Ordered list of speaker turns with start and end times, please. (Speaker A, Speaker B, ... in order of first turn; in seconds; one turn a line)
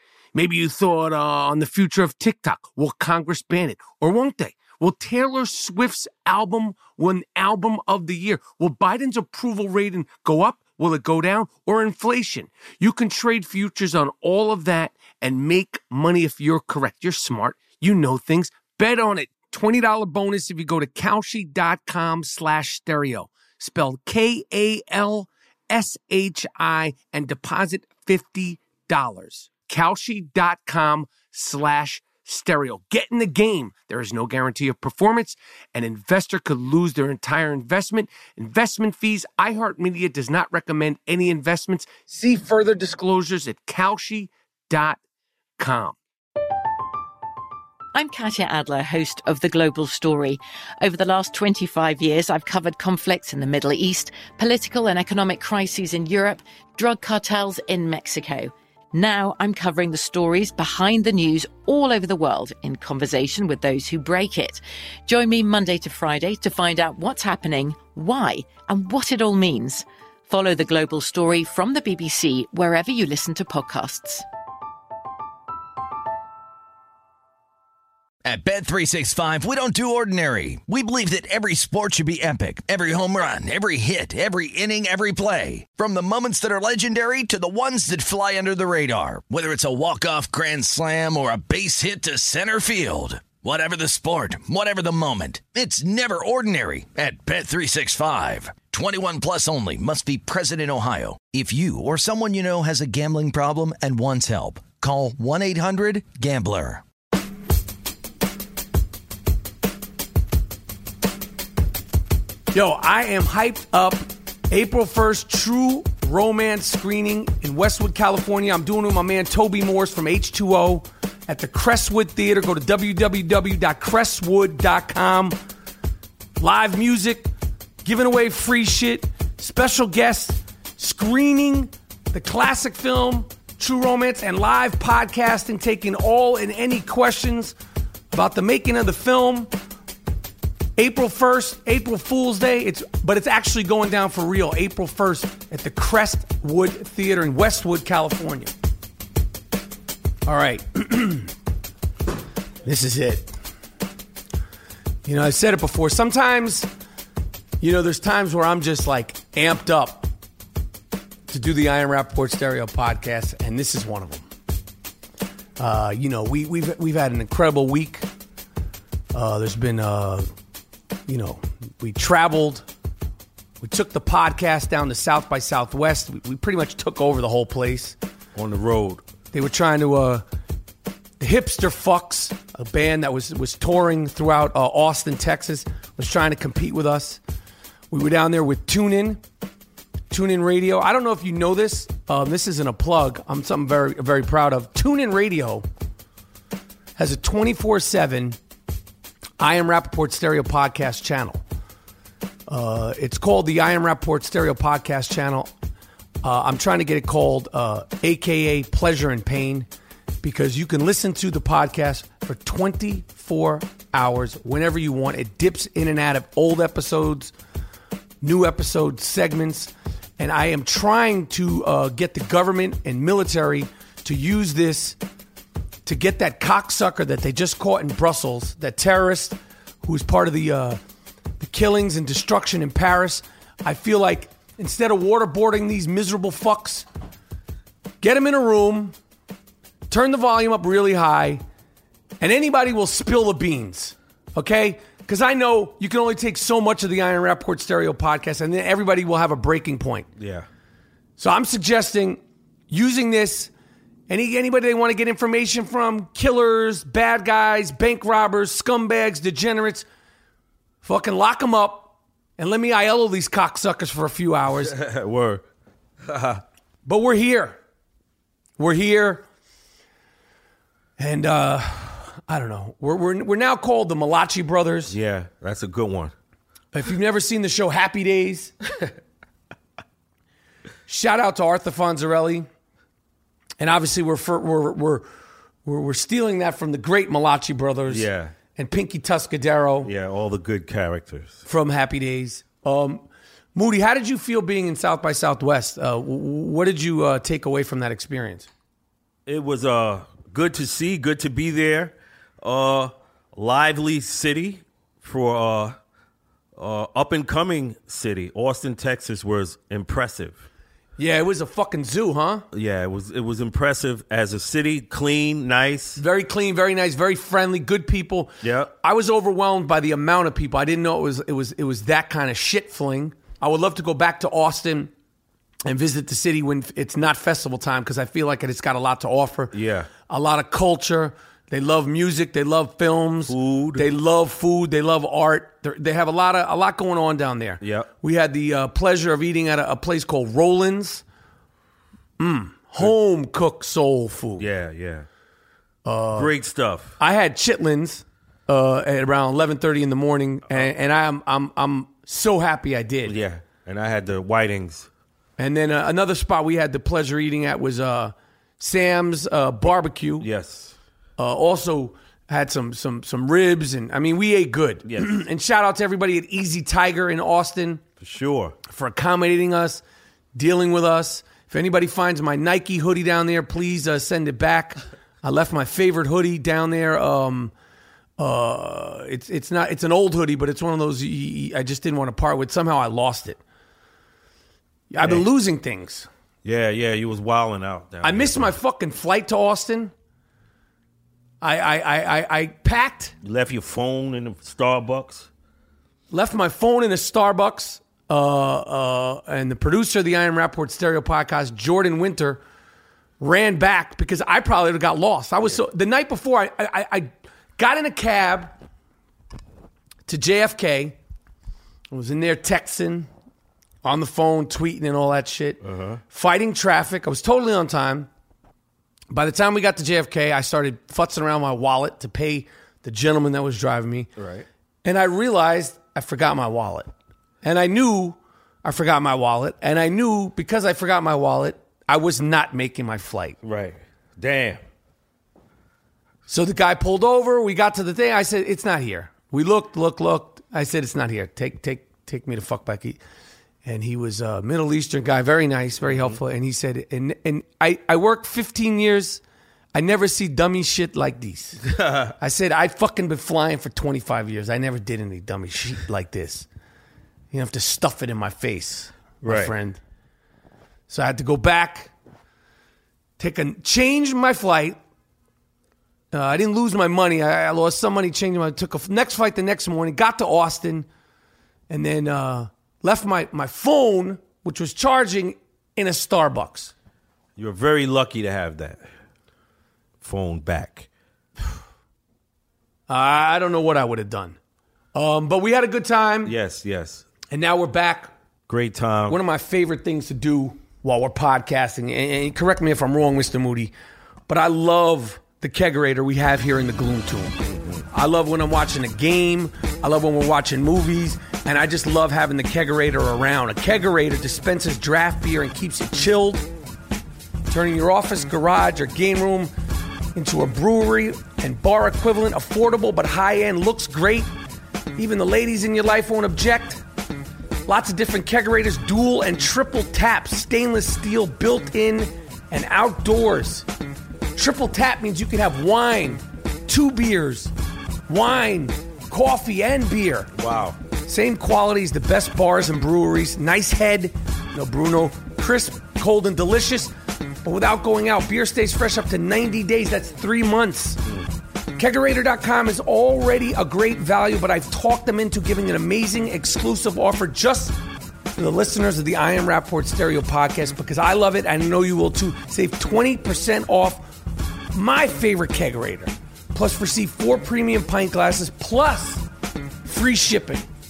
Speaker A: 0.3-45.0
Speaker A: 45.6-46.0
Speaker B: 47.9-74.2
Speaker C: 78.2-106.8
Speaker A: 112.5-125.4
Speaker A: 126.4-127.3
Speaker A: 127.8-137.6
Speaker A: 138.1-139.5
Speaker A: 140.8-148.5
Speaker A: 150.3-151.3
Speaker A: 152.7-153.3
Speaker A: 155.1-156.7
Speaker A: 157.6-160.1
Speaker A: 161.3-164.2
Speaker A: 165.6-168.1
Speaker A: 169.1-170.3
Speaker A: 171.1-172.7
Speaker A: 173.6-178.0
Speaker D: 178.3-179.0
Speaker A: 179.3-180.2
Speaker A: 181.2-187.2
Speaker A: 187.9-189.2
Speaker A: 190.1-195.7
Speaker A: 197.0-198.4
Speaker A: 199.4-201.4
Speaker A: 202.5-205.5
Speaker A: 206.2-209.7
Speaker A: 210.2-217.3
Speaker A: 218.2-225.0
Speaker A: 225.9-230.8
Speaker A: 231.4-236.9
Speaker A: 238.0-238.9
Speaker A: 239.9-241.4
Speaker A: 242.2-250.1
Speaker D: 250.2-250.5
Speaker A: 251.2-252.2
Speaker A: 252.7-253.5
Speaker A: 254.1-259.9
Speaker A: 260.8-264.8
Speaker D: 264.6-265.4
Speaker D: 266.1-266.4
Speaker A: 266.9-267.6
Speaker A: 268.6-269.2
Speaker A: 271.0-274.9
Speaker D: 274.9-276.1
Speaker A: 276.7-278.5
Speaker A: 280.9-282.5
Speaker A: 283.6-285.1
Speaker A: 285.6-289.9
Speaker D: 287.9-288.3
Speaker D: 289.8-291.4
Speaker A: 291.5-298.5
Speaker D: 299.3-305.8
Speaker D: 306.6-310.4
Speaker A: 311.0-312.4
Speaker D: 312.5-316.0
Speaker A: 316.0-324.9
Speaker D: 318.4-318.7
Speaker A: 325.6-329.5
Speaker D: 329.5-329.9
Speaker A: 330.1-341.0
Speaker D: 333.3-333.9
Speaker D: 337.6-337.9
Speaker A: 342.2-344.5
Speaker D: 344.4-345.1
Speaker A: 345.9-346.3
Speaker D: 346.2-347.0
Speaker A: 347.0-353.1
Speaker D: 353.1-354.9
Speaker A: 355.4-360.3
Speaker D: 360.2-360.7
Speaker A: 361.2-367.8
Speaker D: 364.9-365.2
Speaker D: 368.0-368.6
Speaker A: 368.7-369.8
Speaker A: 370.4-377.5
Speaker A: 378.2-383.4
Speaker A: 384.9-386.1
Speaker D: 386.4-388.5
Speaker A: 388.0-389.9
Speaker A: 391.4-393.1
Speaker D: 393.2-395.3
Speaker A: 396.1-402.4
Speaker A: 403.2-408.5
Speaker A: 410.1-411.0
Speaker A: 411.9-413.1
Speaker A: 413.8-418.1
Speaker D: 415.6-416.0
Speaker A: 419.1-424.1
Speaker D: 424.2-424.5
Speaker A: 424.8-426.9
Speaker A: 427.4-433.4
Speaker D: 433.4-434.6
Speaker A: 436.3-443.0
Speaker A: 443.6-449.2
Speaker D: 445.9-446.2
Speaker A: 449.7-451.6
Speaker D: 451.7-452.1
Speaker A: 452.2-456.5
Speaker A: 457.3-459.8
Speaker D: 459.2-459.5
Speaker A: 460.9-461.9
Speaker A: 463.2-464.8
Speaker A: 466.1-470.9
Speaker A: 471.7-476.7
Speaker D: 477.4-478.8
Speaker D: 480.0-480.9
Speaker A: 482.9-484.4
Speaker A: 484.9-486.3
Speaker D: 486.2-487.1
Speaker A: 487.3-488.1
Speaker D: 488.5-489.2
Speaker A: 489.1-493.7
Speaker A: 494.3-497.4
Speaker D: 497.4-497.8
Speaker A: 497.9-506.5
Speaker A: 507.5-509.5
Speaker A: 510.1-514.3
Speaker A: 515.0-516.8
Speaker A: 517.7-523.7
Speaker A: 524.4-527.5
Speaker A: 528.1-530.3
Speaker D: 530.4-530.8
Speaker A: 531.0-541.0
Speaker A: 541.8-547.8
Speaker A: 548.4-554.1
Speaker A: 554.7-559.2
Speaker A: 559.9-560.7